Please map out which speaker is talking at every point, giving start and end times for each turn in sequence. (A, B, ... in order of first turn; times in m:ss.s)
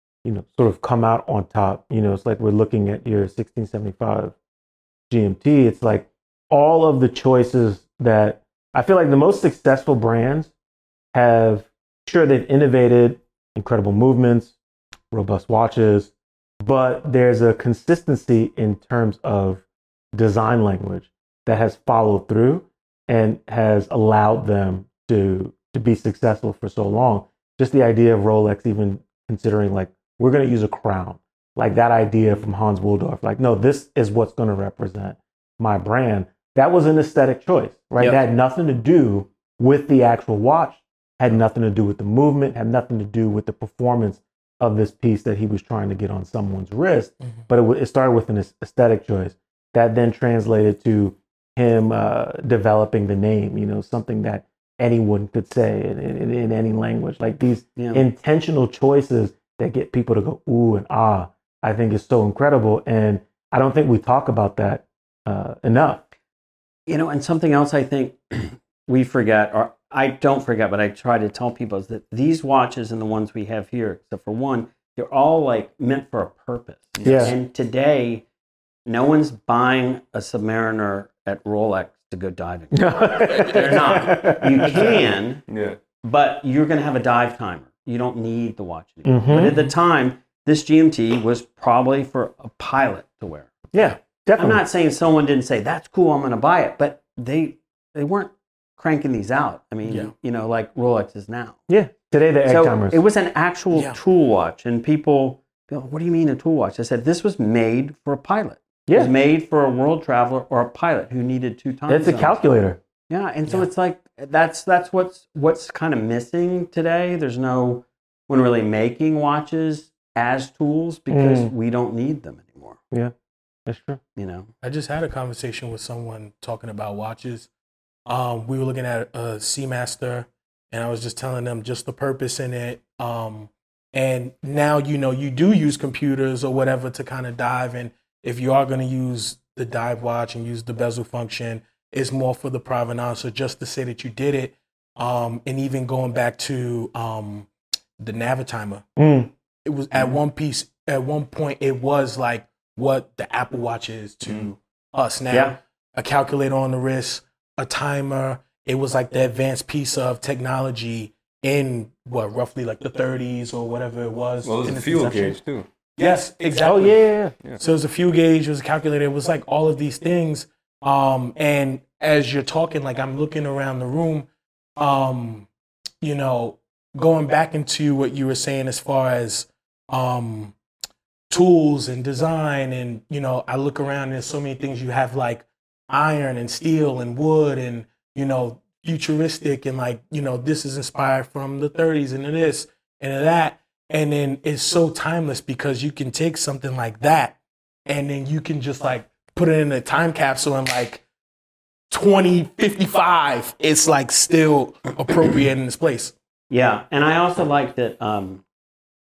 0:00.2-0:04.4 A
0:05.1-0:10.5 A
0:11.1-0:14.6 A
0:15.1-1:06.0 A
0:57.8-0:58.0 B
1:06.9-1:18.2 B
1:17.0-1:17.3 C
1:17.0-1:17.3 A
1:18.9-1:25.5 B
1:22.7-1:25.1 A
1:23.4-1:24.0 D
1:25.5-1:25.8 C
1:26.0-1:33.6 B
1:29.0-1:29.6 A
1:33.7-1:34.6 A
1:34.4-1:41.6 B
1:39.9-1:40.1 D
1:41.7-1:43.0 A
1:42.4-1:52.4 B
1:48.9-1:49.1 A
1:51.9-1:52.8 A
1:53.1-2:02.8 B
2:01.1-2:01.5 A
2:03.7-2:04.0 A
2:04.2-2:04.5 B
2:04.6-2:07.5 D
2:08.1-2:27.5 D
2:28.0-2:28.9 D
2:29.0-2:29.3 A
2:29.6-2:45.4 D
2:34.3-2:34.5 C
2:35.3-2:35.6 B
2:44.4-2:45.6 C
2:46.0-2:55.5 D
2:46.6-2:47.4 A
2:56.0-3:00.5 D
3:01.3-3:21.0 D
3:21.9-3:26.1 D
3:26.5-3:28.4 B